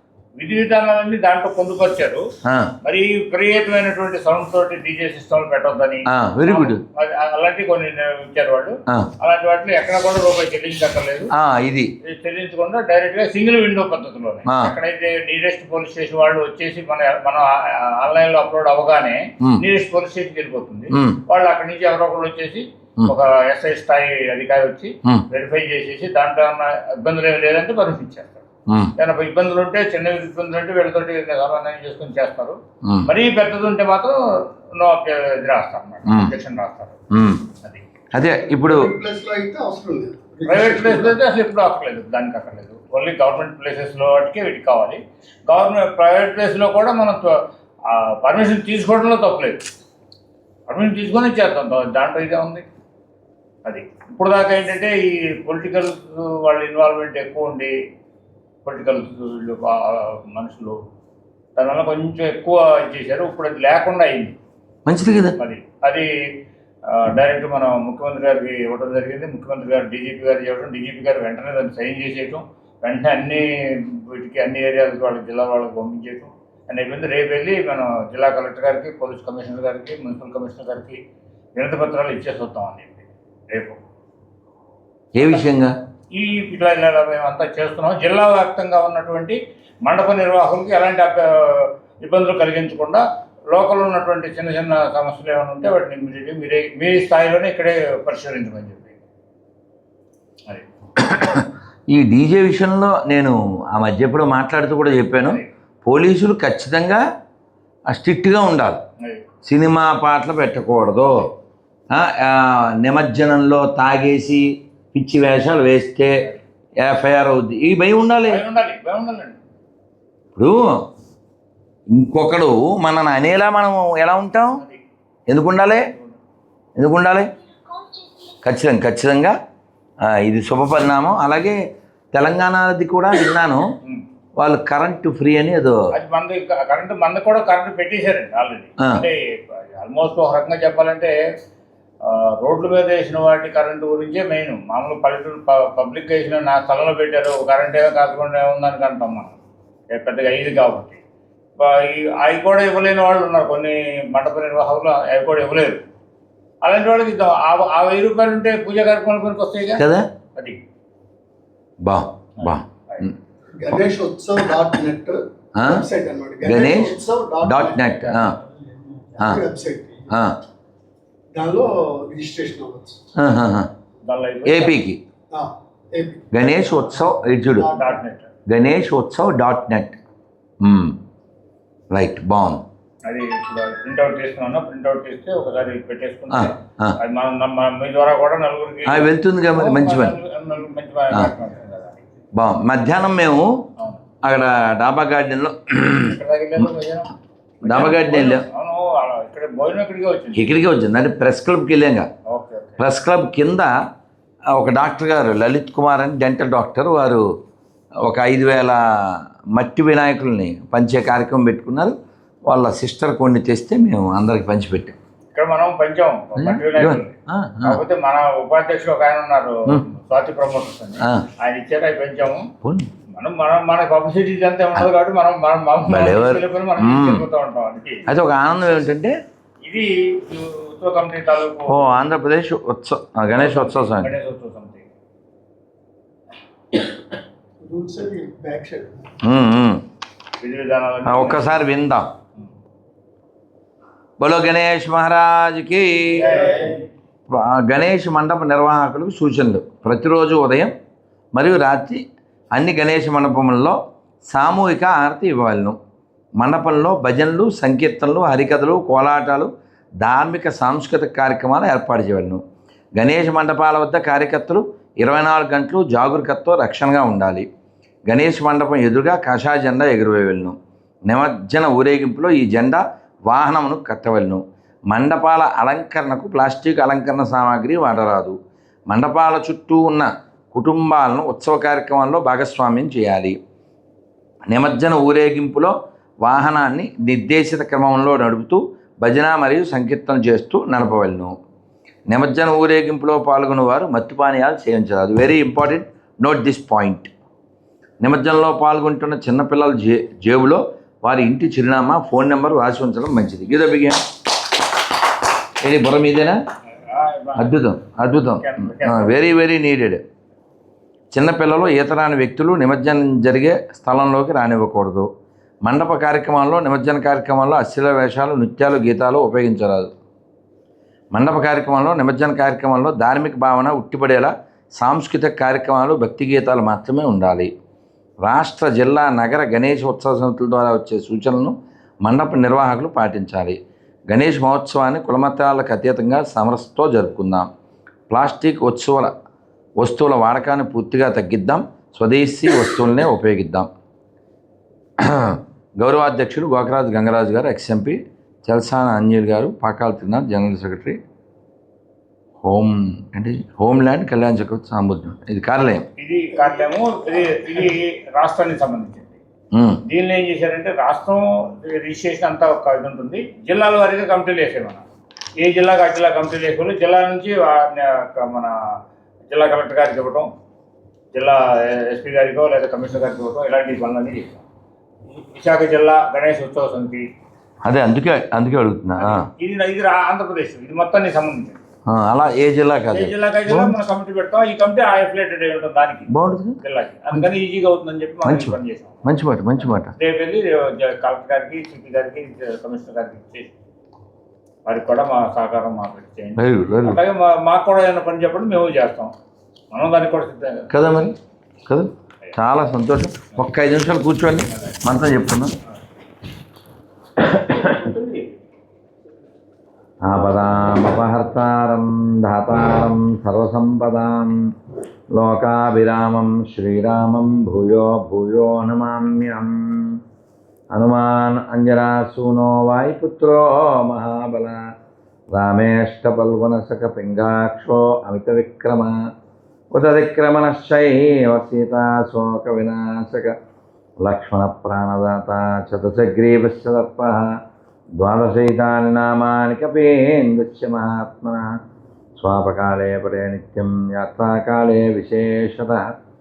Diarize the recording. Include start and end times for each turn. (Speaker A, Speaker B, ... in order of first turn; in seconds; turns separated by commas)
Speaker A: 0.4-2.3, Speaker B: 2.5-2.7, Speaker A: 2.8-11.3, Speaker B: 6.1-6.8, Speaker B: 11.3-11.9, Speaker A: 12.0-28.4, Speaker B: 14.5-14.7, Speaker B: 20.9-21.2, Speaker B: 28.7-28.9, Speaker A: 29.0-37.0, Speaker B: 32.9-33.1, Speaker B: 36.1-36.3, Speaker B: 37.1-37.5, Speaker B: 38.1-38.9, Speaker C: 38.4-41.2, Speaker A: 40.5-47.4, Speaker A: 47.9-49.6, Speaker A: 50.7-52.6, Speaker A: 53.7-57.8, Speaker A: 58.6-60.8, Speaker A: 61.6-64.3, Speaker B: 64.9-65.4, Speaker A: 65.4-66.1, Speaker A: 66.9-81.0, Speaker A: 81.6-83.8, Speaker B: 85.2-85.7, Speaker A: 86.1-98.9, Speaker B: 101.0-107.0, Speaker A: 105.2-105.5, Speaker B: 107.9-108.8, Speaker B: 109.4-111.3, Speaker B: 111.9-116.2, Speaker B: 116.8-118.4, Speaker A: 118.3-119.4, Speaker B: 120.4-120.8, Speaker B: 121.9-124.6, Speaker B: 125.3-125.9, Speaker B: 126.8-127.3, Speaker B: 128.4-129.4, Speaker B: 130.1-131.6, Speaker B: 132.1-133.7, Speaker B: 134.4-135.8, Speaker A: 135.9-141.1, Speaker A: 142.0-149.3, Speaker A: 149.9-151.0, Speaker A: 151.6-155.8, Speaker A: 156.6-159.8, Speaker B: 159.8-160.1, Speaker B: 161.8-163.1, Speaker A: 162.4-163.1, Speaker C: 163.6-170.1, Speaker B: 165.6-165.8, Speaker B: 166.4-168.4, Speaker B: 170.1-170.4, Speaker C: 171.3-173.0, Speaker B: 173.2-173.7, Speaker A: 174.1-174.8, Speaker B: 174.5-175.0, Speaker C: 175.3-176.4, Speaker B: 176.3-177.7, Speaker C: 177.6-177.8, Speaker A: 177.7-178.3, Speaker B: 178.5-180.0, Speaker B: 180.6-181.0, Speaker B: 181.9-182.7, Speaker A: 183.1-192.0, Speaker B: 186.3-187.0, Speaker B: 188.9-190.2, Speaker B: 192.3-193.6, Speaker B: 194.2-196.2, Speaker A: 196.0-197.1, Speaker B: 197.6-198.4, Speaker A: 197.6-200.5, Speaker B: 200.3-202.1, Speaker A: 202.3-202.8, Speaker B: 202.8-203.7, Speaker B: 204.5-207.2, Speaker B: 208.0-215.0, Speaker A: 215.3-222.5, Speaker B: 216.4-217.8, Speaker B: 221.0-221.3, Speaker B: 222.6-222.9, Speaker A: 223.1-228.1, Speaker B: 225.9-227.2, Speaker B: 228.1-229.1, Speaker A: 229.6-232.0, Speaker B: 231.7-234.1, Speaker A: 233.4-234.8, Speaker C: 237.6-239.1, Speaker B: 239.2-239.8, Speaker A: 240.4-241.6, Speaker B: 241.1-242.1, Speaker B: 244.2-246.2, Speaker A: 246.2-246.8, Speaker B: 247.3-250.7, Speaker B: 251.3-252.0, Speaker B: 252.5-253.8, Speaker B: 254.3-255.8, Speaker B: 256.4-262.4, Speaker B: 263.0-267.5, Speaker B: 268.1-270.6, Speaker B: 271.1-278.4, Speaker B: 278.9-283.4, Speaker B: 284.5-291.4, Speaker B: 292.1-297.1, Speaker B: 298.0-304.0, Speaker B: 305.6-306.4, Speaker A: 306.8-307.6, Speaker B: 307.4-310.0, Speaker A: 308.4-309.2, Speaker B: 311.1-315.1, Speaker B: 315.6-319.9, Speaker B: 321.1-327.5, Speaker B: 328.2-333.6, Speaker B: 334.1-337.5, Speaker B: 338.1-339.1, Speaker B: 339.8-343.7, Speaker B: 345.0-351.0, Speaker B: 352.4-355.9, Speaker A: 356.0-359.1, Speaker B: 359.5-359.8, Speaker A: 359.9-364.8, Speaker A: 365.4-368.6, Speaker A: 369.3-370.3, Speaker A: 371.1-374.4, Speaker A: 375.2-377.1, Speaker B: 377.6-379.3, Speaker A: 379.0-381.6, Speaker B: 381.9-383.8, Speaker A: 382.9-386.1, Speaker B: 386.1-386.6, Speaker A: 386.6-389.1, Speaker B: 388.2-389.9, Speaker A: 390.0-393.5, Speaker A: 394.7-399.1, Speaker B: 396.4-397.0, Speaker A: 399.7-400.7, Speaker B: 400.7-401.2, Speaker B: 401.7-405.5, Speaker B: 407.2-407.9, Speaker B: 410.0-414.5, Speaker B: 415.1-420.0, Speaker B: 420.7-424.7, Speaker B: 425.3-429.0, Speaker B: 429.7-433.4, Speaker B: 434.0-437.3, Speaker B: 438.0-441.5, Speaker B: 442.2-445.9